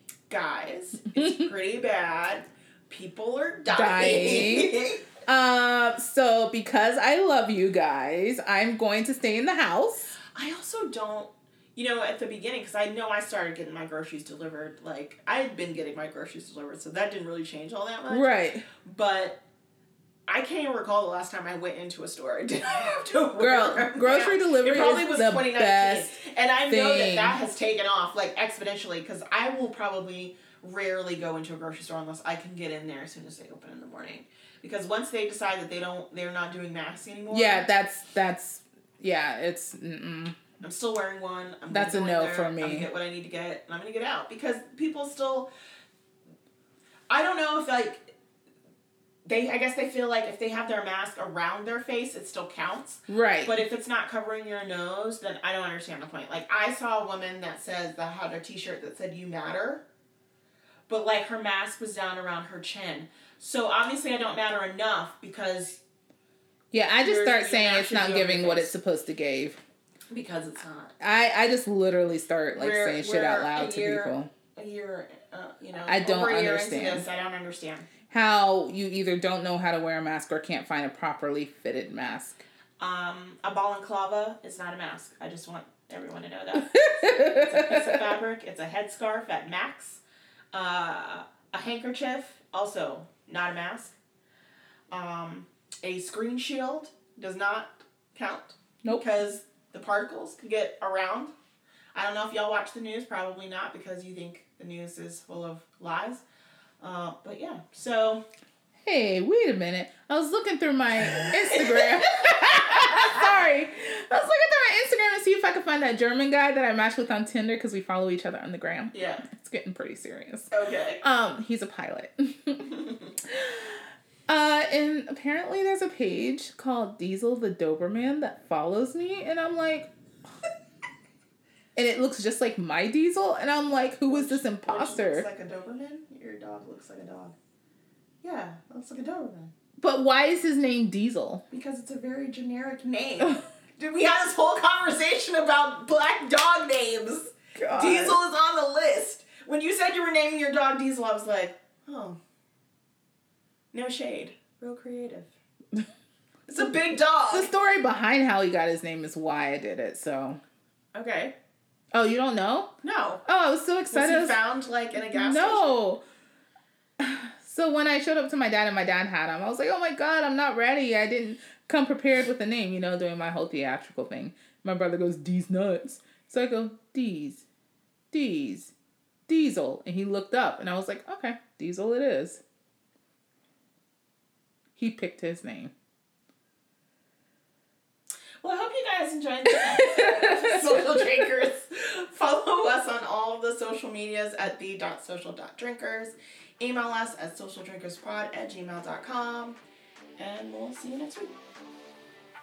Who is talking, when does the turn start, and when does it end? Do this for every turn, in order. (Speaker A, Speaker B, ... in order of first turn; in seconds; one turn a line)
Speaker A: 0.3-5.1
Speaker B: 1.1-1.4
Speaker B: 3.7-10.1
Speaker A: 10.3-19.4
Speaker B: 18.1-18.6
Speaker A: 20.3-37.7
Speaker B: 23.4-26.1
Speaker B: 26.7-27.4
Speaker B: 37.3-40.4
Speaker A: 40.6-45.5
Speaker B: 41.7-42.9
Speaker A: 47.1-48.1
Speaker A: 49.2-59.8
Speaker B: 53.1-53.6
Speaker A: 60.9-65.8
Speaker B: 66.7-69.6
Speaker A: 67.0-68.8
Speaker A: 70.1-70.9
Speaker B: 71.0-74.3
Speaker A: 72.6-77.9
Speaker B: 75.9-77.0
Speaker B: 78.1-82.4
Speaker A: 82.8-90.0
Speaker B: 86.7-88.0
Speaker A: 90.5-94.0
Speaker A: 94.9-101.3
Speaker A: 101.9-106.2
Speaker A: 106.8-108.2
Speaker B: 108.8-129.9
Speaker A: 111.0-113.4
Speaker A: 118.9-119.2
Speaker A: 120.5-121.0
Speaker B: 131.8-135.3
Speaker A: 134.1-137.3
Speaker A: 138.2-139.5
Speaker B: 139.8-141.4
Speaker A: 141.5-152.2
Speaker B: 147.6-148.2
Speaker A: 153.7-155.3
Speaker A: 156.5-157.5
Speaker B: 157.3-160.4
Speaker A: 160.9-161.3
Speaker B: 161.9-162.7
Speaker A: 162.8-163.2
Speaker B: 163.2-164.4
Speaker A: 163.9-165.8
Speaker B: 165.0-166.0
Speaker B: 167.0-177.4
Speaker B: 178.1-178.7
Speaker B: 179.3-182.4
Speaker B: 184.8-185.7
Speaker A: 188.4-199.6
Speaker B: 189.7-191.0
Speaker A: 200.2-201.4